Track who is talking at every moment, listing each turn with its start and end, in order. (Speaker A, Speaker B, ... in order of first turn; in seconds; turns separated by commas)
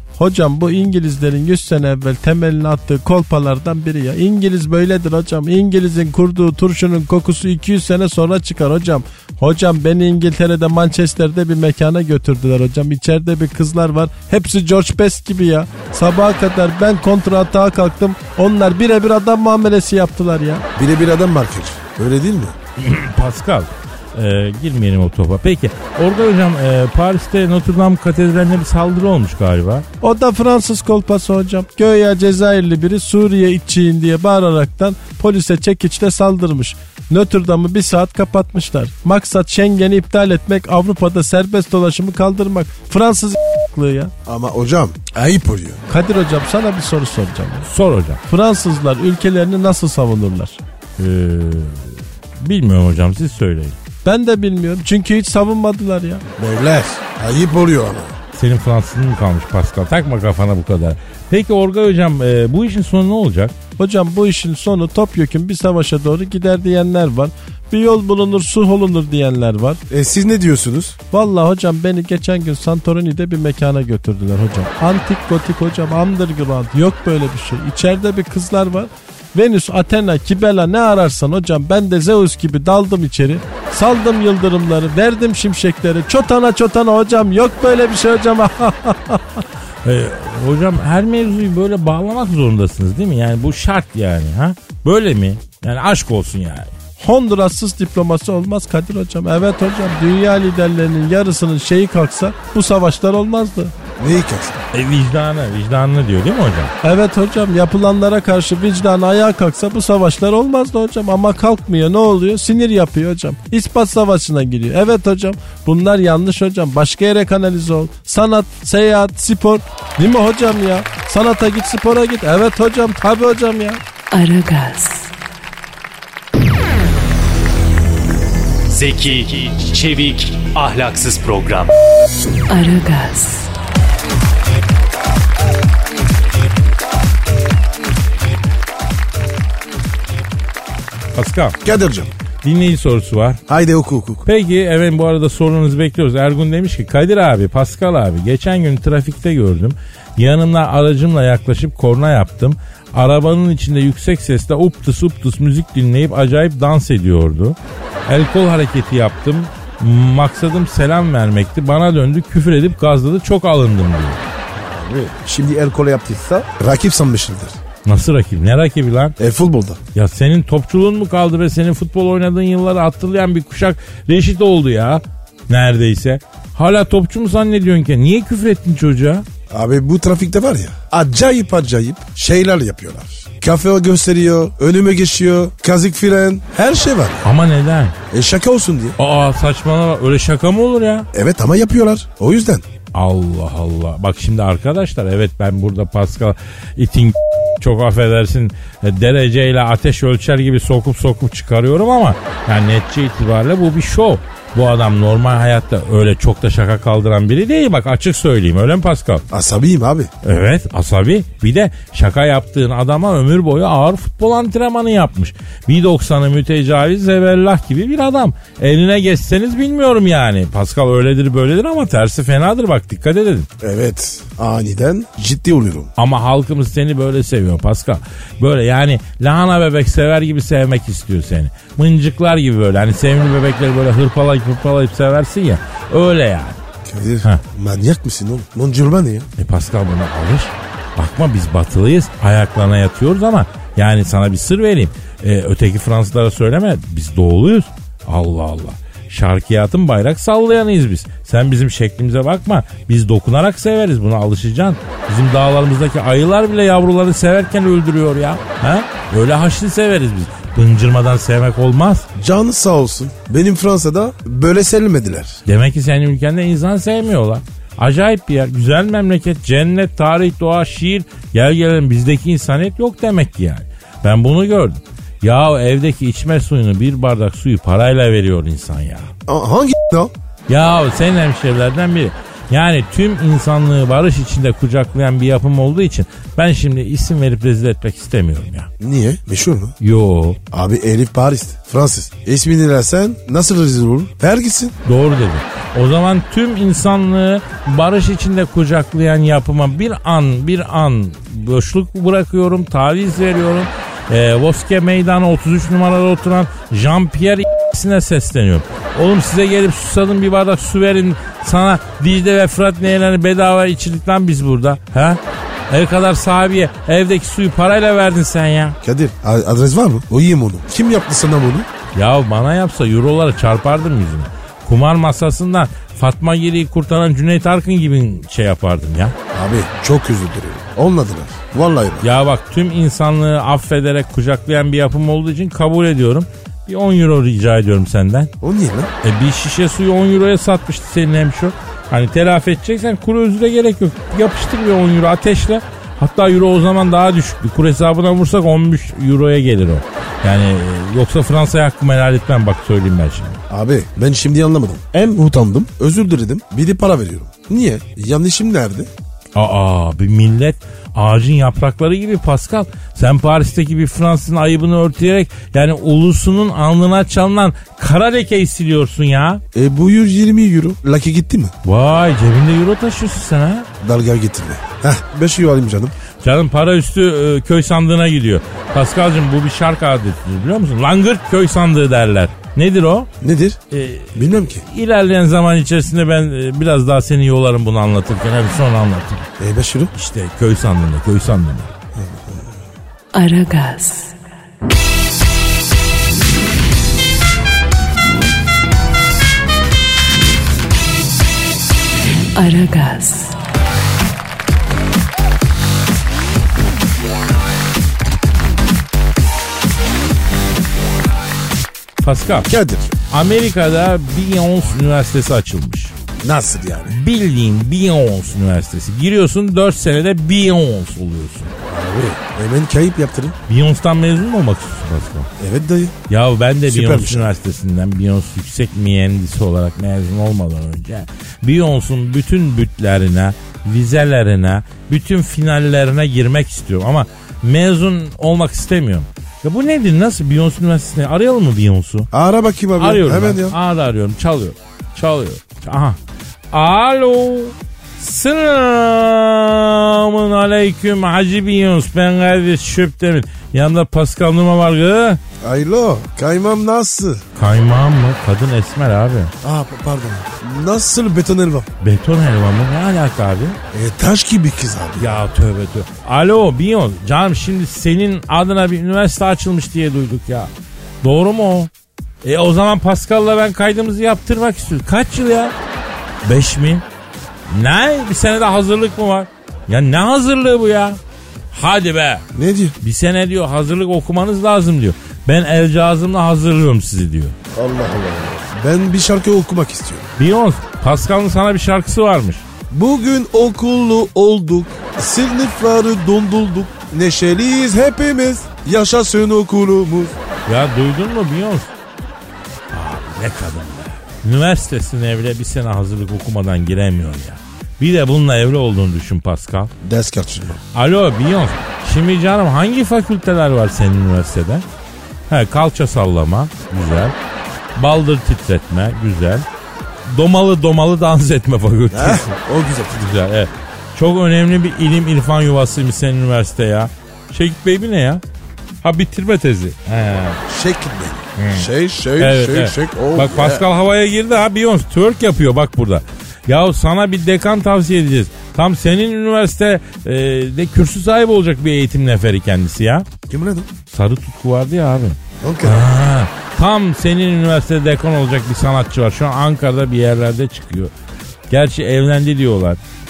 Speaker A: 0.2-20.6, Speaker B: 20.7-22.6, Speaker C: 22.8-29.9, Speaker A: 30.0-44.1, Speaker B: 44.2-45.8, Speaker A: 45.9-47.7, Speaker C: 47.6-48.2, Speaker A: 48.3-50.6, Speaker C: 51.0-53.7, Speaker A: 54.0-56.2, Speaker B: 56.4-58.1, Speaker C: 58.3-63.5, Speaker A: 63.8-69.8, Speaker B: 69.9-71.0, Speaker A: 71.1-89.2, Speaker C: 89.8-96.7, Speaker A: 97.0-103.7, Speaker B: 104.0-104.6, Speaker C: 104.7-106.7, Speaker A: 106.8-123.8, Speaker D: 124.1-125.1, Speaker E: 128.7-131.7, Speaker D: 132.5-133.5, Speaker C: 141.1-141.6, Speaker B: 141.6-142.1, Speaker C: 142.4-143.4, Speaker B: 143.5-144.2, Speaker C: 144.2-164.2, Speaker B: 164.5-167.6, Speaker C: 167.8-169.2, Speaker B: 169.2-169.8, Speaker C: 169.9-179.2, Speaker B: 179.5-187.3, Speaker C: 187.2-187.9, Speaker B: 188.1-188.9, Speaker C: 189.0-191.1, Speaker B: 191.1-192.6, Speaker C: 192.9-209.2, Speaker B: 209.3-210.1, Speaker C: 210.2-223.5, Speaker B: 223.6-225.9, Speaker C: 226.0-236.6, Speaker B: 236.8-239.3, Speaker C: 239.4-262.1, Speaker B: 262.1-265.4, Speaker C: 265.4-279.1, Speaker B: 279.3-280.1, Speaker C: 280.5-288.7, Speaker B: 288.8-289.7, Speaker C: 289.8-290.4, Speaker B: 290.5-294.8, Speaker C: 294.8-318.8, Speaker B: 318.8-321.7, Speaker C: 321.9-329.1, Speaker B: 329.3-332.1, Speaker C: 332.0-338.3, Speaker B: 338.4-338.9, Speaker C: 339.0-353.4, Speaker B: 353.5-358.9, Speaker C: 359.3-369.4, Speaker B: 369.5-371.5, Speaker C: 371.6-373.7, Speaker B: 373.8-375.9, Speaker C: 376.2-383.1, Speaker B: 383.2-383.6, Speaker C: 383.7-389.3, Speaker B: 384.1-384.6, Speaker B: 389.4-389.9, Speaker C: 389.9-391.7, Speaker B: 391.9-392.6, Speaker D: 393.1-394.1, Speaker D: 402.3-403.4, Speaker C: 412.0-412.5, Speaker B: 412.5-412.9, Speaker C: 413.1-415.9, Speaker B: 416.2-417.0, Speaker C: 416.9-421.5, Speaker B: 421.7-423.4, Speaker C: 423.5-425.3, Speaker B: 425.4-425.9, Speaker C: 426.1-442.1, Speaker B: 426.6-427.4, Speaker B: 442.1-443.6, Speaker C: 442.8-446.0, Speaker C: 446.5-455.2, Speaker B: 455.4-457.2, Speaker C: 457.4-459.3, Speaker B: 459.4-461.7, Speaker C: 461.8-463.6, Speaker B: 463.7-465.2, Speaker C: 465.0-470.5, Speaker C: 471.0-471.7, Speaker C: 472.2-475.5, Speaker C: 476.2-476.8, Speaker C: 477.5-481.0, Speaker C: 481.5-482.2, Speaker B: 482.3-482.8, Speaker C: 482.8-487.4, Speaker B: 487.5-490.1, Speaker C: 490.2-492.4, Speaker B: 492.7-500.1, Speaker C: 500.5-501.7, Speaker C: 502.7-509.7, Speaker B: 509.8-510.6, Speaker C: 510.7-514.6, Speaker C: 515.3-517.1, Speaker C: 517.8-519.4, Speaker C: 520.0-522.3, Speaker B: 521.9-523.1, Speaker C: 522.9-528.2, Speaker C: 528.8-530.4, Speaker B: 530.4-533.7, Speaker C: 531.4-543.0, Speaker B: 543.3-543.7, Speaker C: 543.9-550.9, Speaker B: 545.4-545.9, Speaker C: 551.5-552.8